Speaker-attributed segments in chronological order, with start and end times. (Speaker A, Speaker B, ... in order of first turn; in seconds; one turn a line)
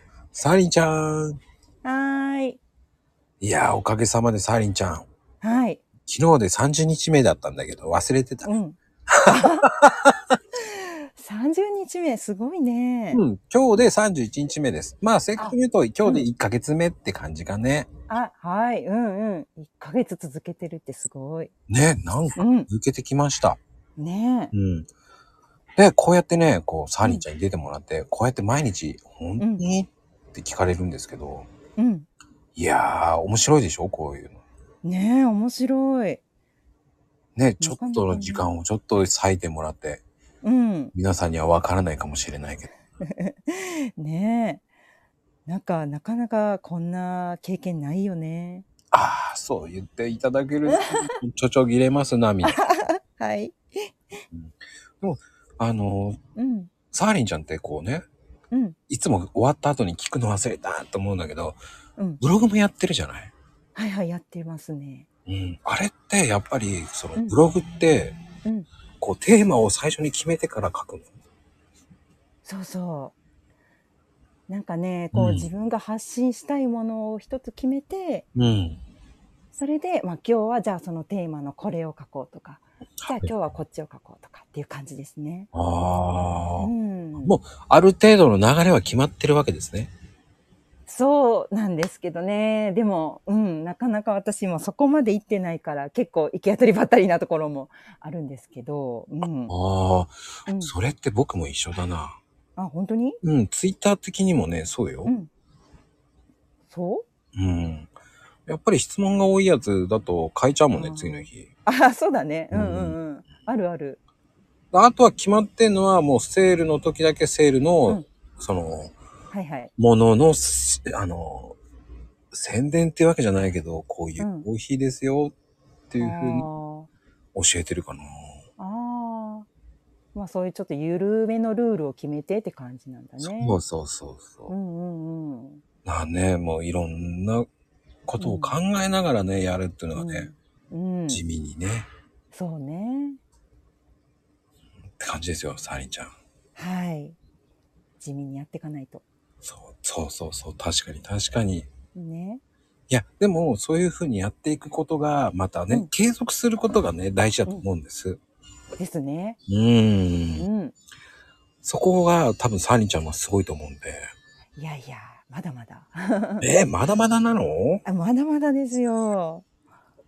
Speaker A: 0.3-1.4
Speaker B: 1.8-2.6
Speaker A: 3.4-5.1
Speaker B: 5.4-5.8
Speaker A: 6.1-8.5
Speaker B: 8.4-9.7
Speaker A: 9.1-10.1
Speaker B: 10.6-13.2
Speaker A: 13.1-17.9
Speaker B: 15.4-16.3
Speaker B: 18.1-21.5
Speaker A: 21.7-23.6
Speaker B: 22.4-22.7
Speaker B: 24.0-24.5
Speaker A: 24.5-24.9
Speaker A: 25.8-31.5
Speaker B: 29.4-29.6
Speaker B: 31.8-32.1
Speaker A: 32.5-34.4
Speaker B: 34.8-36.2
Speaker A: 37.4-40.0
Speaker B: 37.6-38.5
Speaker B: 40.4-40.9
Speaker A: 40.9-42.7
Speaker B: 43.0-44.6
Speaker B: 45.5-48.7
Speaker A: 48.9-52.9
Speaker B: 50.7-51.1
Speaker B: 52.4-54.2
Speaker A: 54.3-56.2
Speaker B: 56.4-56.7
Speaker A: 56.9-58.0
Speaker B: 58.5-58.8
Speaker A: 58.9-61.6
Speaker A: 62.2-63.3
Speaker B: 63.8-65.0
Speaker A: 65.3-68.2
Speaker A: 69.0-71.1
Speaker B: 72.4-73.1
Speaker B: 74.5-78.2
Speaker A: 75.1-75.5
Speaker A: 78.3-78.8
Speaker B: 79.5-85.5
Speaker A: 83.0-83.3
Speaker A: 85.5-89.9
Speaker B: 86.6-87.3
Speaker B: 90.9-99.5
Speaker A: 99.5-102.2
Speaker B: 100.5-100.7
Speaker B: 102.6-103.2
Speaker A: 103.2-105.1
Speaker B: 106.7-107.0
Speaker A: 107.3-107.9
Speaker A: 108.5-111.5
Speaker B: 110.7-114.0
Speaker A: 112.5-113.0
Speaker A: 114.7-118.9
Speaker B: 119.3-119.7
Speaker A: 119.8-121.6
Speaker A: 122.3-125.3
Speaker B: 124.2-124.5
Speaker A: 125.9-126.5
Speaker B: 126.0-126.9
Speaker A: 127.3-128.4
Speaker B: 128.6-129.5
Speaker B: 130.1-133.6
Speaker A: 133.2-134.5
Speaker B: 134.5-135.6
Speaker A: 135.8-137.4
Speaker A: 138.1-140.3
Speaker B: 138.2-138.6
Speaker B: 139.9-141.2
Speaker A: 141.1-141.9
Speaker B: 142.3-143.2
Speaker A: 145.0-146.1
Speaker B: 146.6-147.2
Speaker B: 148.0-149.0
Speaker A: 149.4-151.7
Speaker B: 151.9-152.4
Speaker A: 152.9-158.2
Speaker B: 158.8-159.4
Speaker A: 159.5-160.5
Speaker B: 160.4-160.7
Speaker A: 161.6-164.1
Speaker B: 164.6-166.5
Speaker A: 166.4-167.8
Speaker B: 167.8-169.4